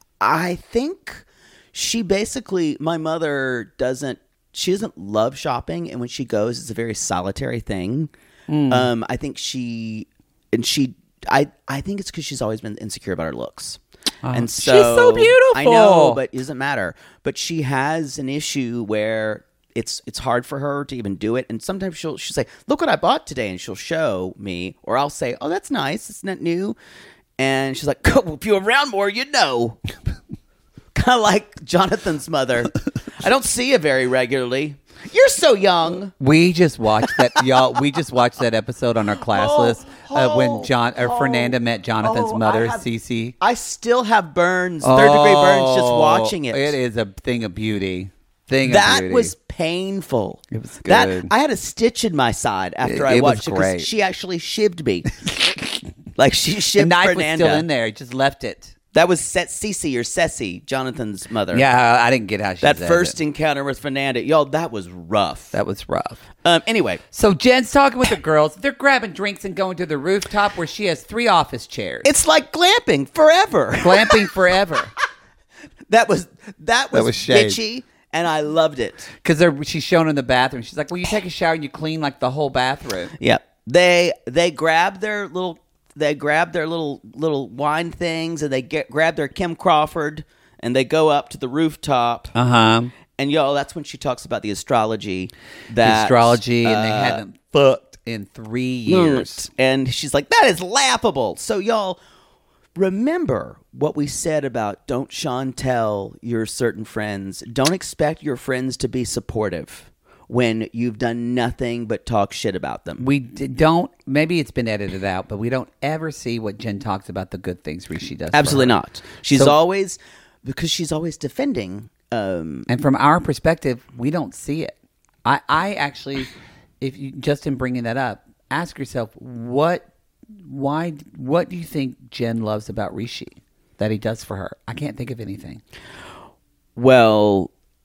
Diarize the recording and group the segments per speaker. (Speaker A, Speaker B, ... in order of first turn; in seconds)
Speaker A: 0.2-8.1, 8.7-13.8, 14.3-26.8, 27.4-29.8, 30.9-36.1, 39.3-42.9, 43.4-46.8, 48.6-55.1, 56.2-57.7, 58.9-61.7, 62.6-65.6, 66.4-67.0, 72.0-74.3, 75.9-79.1, 83.2-92.3, 93.2-97.2, 98.9-102.0, 102.8-113.1, 118.3-122.7, 136.8-137.5
Speaker B: 8.5-8.9, 14.2-16.2, 36.2-43.4, 44.8-49.3, 50.5-51.3, 52.8-53.9, 56.8-58.7, 61.5-63.2, 65.5-66.2, 67.1-72.1, 73.8-74.9, 76.9-77.6, 79.2-83.1, 92.3-92.9, 95.8-99.5, 113.0-118.8, 122.7-129.9, 130.4-135.6